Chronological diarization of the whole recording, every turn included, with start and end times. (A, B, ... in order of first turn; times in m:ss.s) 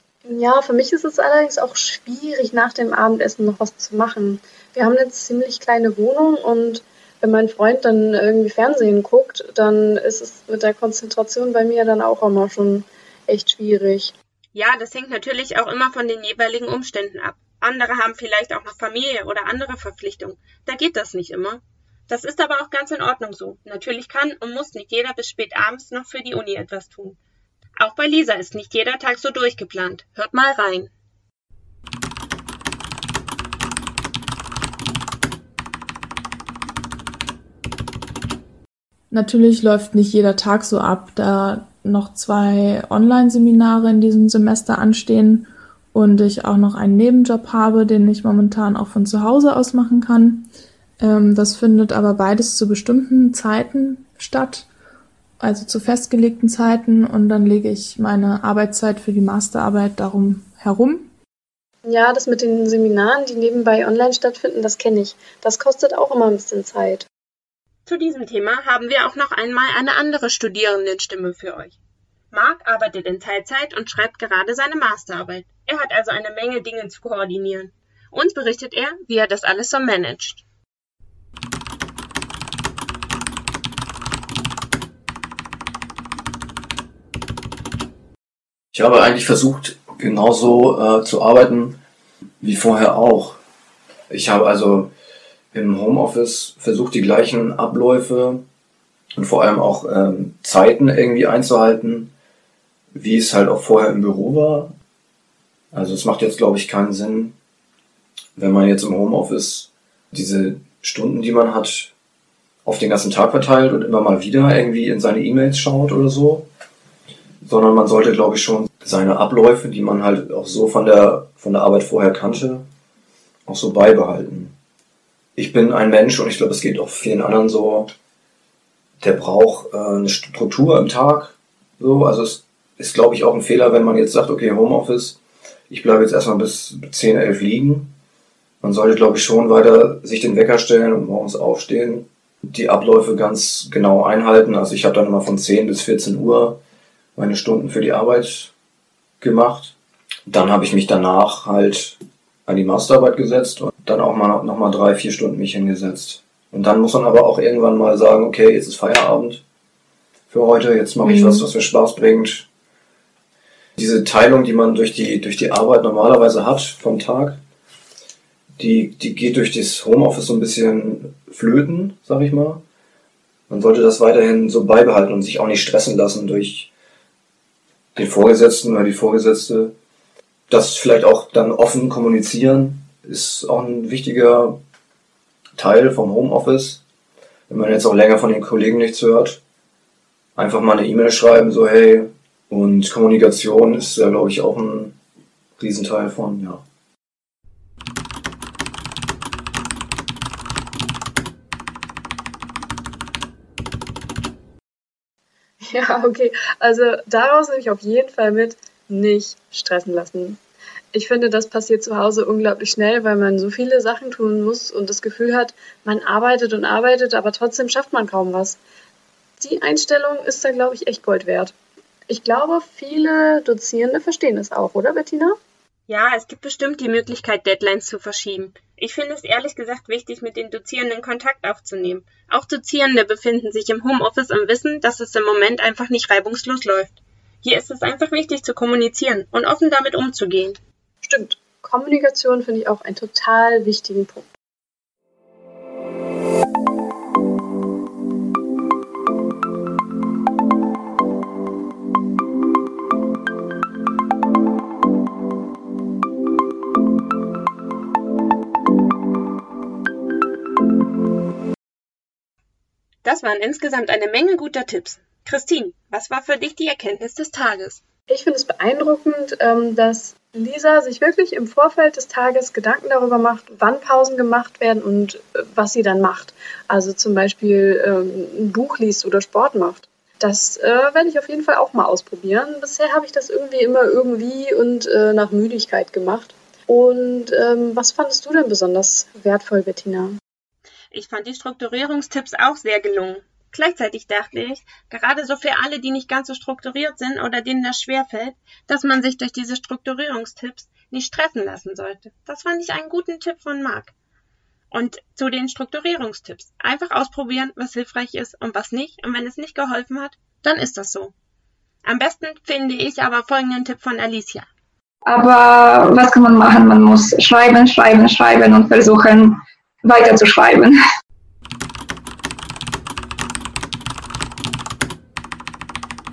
0:00.2-0:14.1 A
0:14.6-0:27.2 B
0:27.8-0:30.9 B
0:39.1-0:50.5 C
0:51.0-0:54.7 C
0:55.4-1:01.1 C
1:01.8-1:07.1 A
1:07.9-1:11.8 B
1:12.3-1:20.4 B
1:28.7-1:31.8 D
1:32.4-1:33.4 D
1:34.1-1:34.9 D
1:35.5-1:38.4 D
1:39.2-1:42.1 D
1:42.9-1:44.7 D
1:45.7-1:47.4 D
1:48.4-1:51.9 D
1:52.6-1:56.5 D
1:57.4-2:02.6 D
2:03.5-2:04.6 D
2:05.4-2:07.9 D
2:09.0-2:15.2 D
2:15.7-2:17.9 D
2:18.6-2:26.6 D
2:27.2-2:28.5 D
2:29.2-2:29.8 D
2:30.3-2:39.4 D
2:40.3-2:42.5 D
2:43.8-2:47.4 D
2:48.6-2:52.6 D
2:53.5-2:56.7 D
2:58.0-2:59.8 D
3:00.5-3:04.6 D
3:05.6-3:06.8 D
3:07.5-3:09.4 D
3:10.4-3:15.0 D
3:15.6-3:16.6 D
3:25.6-3:30.4 A
3:30.9-3:38.6 A
3:39.4-3:41.5 A
3:42.1-3:45.4 A
3:45.9-4:00.6 B
4:01.0-4:04.3 A
4:23.0-4:27.8 B
4:28.1-4:50.2 A
4:50.9-5:03.9 B
5:04.7-5:11.1 B
5:11.8-5:14.5 B
5:15.0-5:20.8 E